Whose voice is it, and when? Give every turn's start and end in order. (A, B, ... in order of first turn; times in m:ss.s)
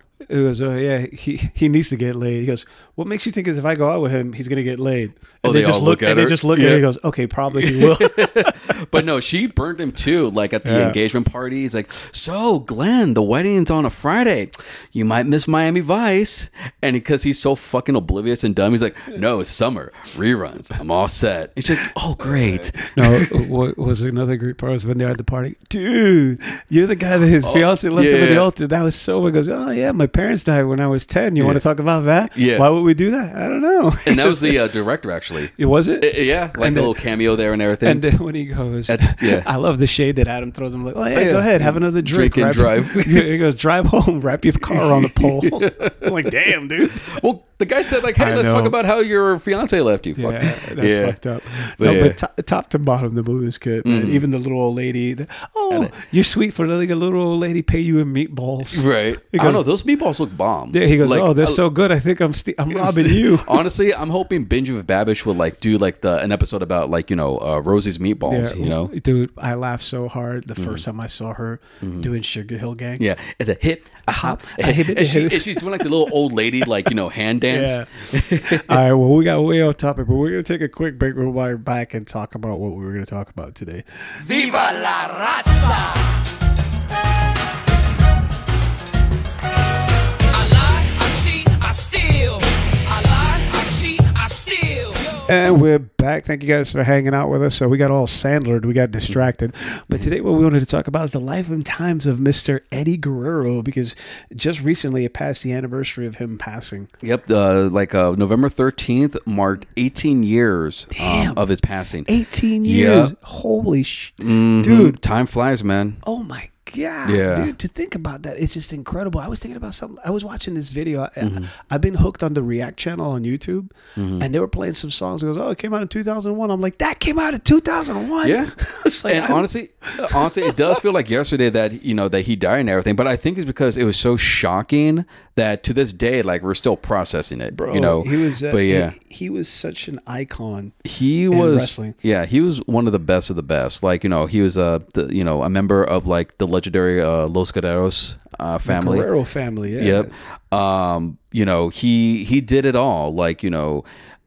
0:00.3-0:08.8 A
0:05.4-0:06.8 B
0:07.5-0:23.4 B
0:10.6-0:11.0 A
0:22.7-0:34.6 A
0:27.4-0:28.5 B
0:32.4-0:32.6 B
0:34.0-0:38.0 B
0:35.5-0:37.0 A
0:37.8-0:47.2 A
0:38.9-0:39.5 B
0:41.1-0:43.3 B
0:44.6-0:46.3 B
0:46.9-0:52.2 B
0:48.1-0:48.8 A
0:50.2-0:59.6 A
0:53.8-0:54.2 B
0:58.7-1:01.6 B
1:00.7-1:03.6 A
1:02.7-1:08.9 B
1:08.2-1:13.0 A
1:10.6-1:10.8 B
1:11.8-1:12.1 B
1:13.0-1:18.8 B
1:14.1-1:16.0 A
1:17.5-1:24.2 A
1:24.2-1:26.1 C
1:30.3-1:35.3 C
1:35.2-1:46.9 A
1:47.0-1:52.1 B
1:50.9-1:51.4 A
1:52.0-1:55.0 A
1:52.6-1:53.1 B
1:54.2-1:56.0 B
1:56.0-2:10.8 A
1:57.0-1:57.5 B
2:01.2-2:01.5 B
2:04.0-2:04.2 B
2:08.2-2:08.5 B
2:09.0-2:18.9 B
2:17.5-2:20.7 A
2:20.8-2:29.1 B
2:21.3-2:21.9 A
2:28.6-2:30.1 A
2:29.8-2:33.8 B